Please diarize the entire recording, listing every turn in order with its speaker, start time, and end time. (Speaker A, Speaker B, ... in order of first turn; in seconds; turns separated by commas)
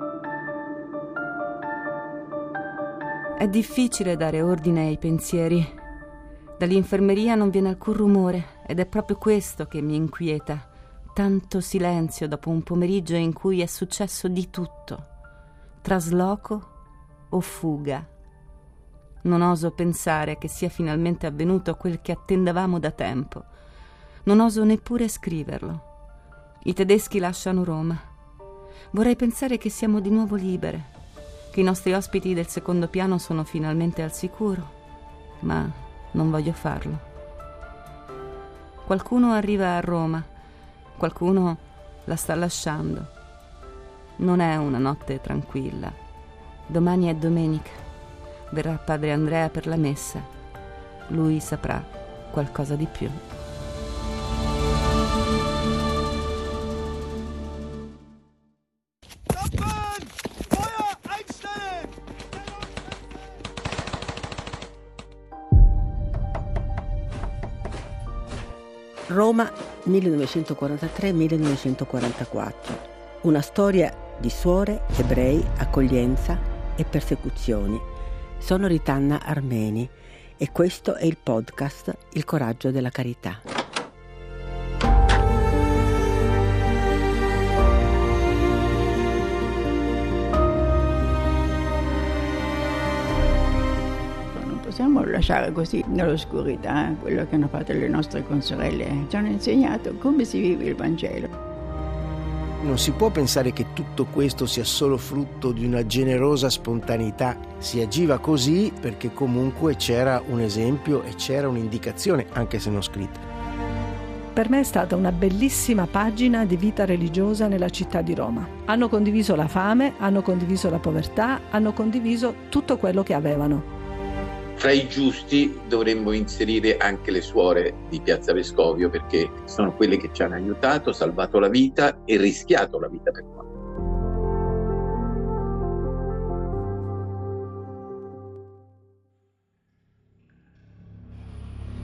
Speaker A: 3.4-5.7, Speaker A: 6.6-15.1, Speaker A: 15.8-16.7, Speaker A: 17.3-18.1, Speaker A: 19.2-23.4, Speaker A: 24.2-25.8, Speaker A: 26.6-28.1, Speaker A: 28.9-30.9, Speaker A: 31.5-34.7, Speaker A: 35.4-37.0, Speaker A: 38.8-40.3, Speaker A: 41.0-43.1, Speaker A: 44.2-46.0, Speaker A: 46.7-47.8, Speaker A: 48.5-50.3, Speaker A: 51.1-53.2, Speaker B: 69.1-77.9, Speaker B: 78.4-83.4, Speaker C: 94.3-101.3, Speaker D: 102.6-113.2, Speaker E: 114.3-123.7, Speaker F: 124.6-133.5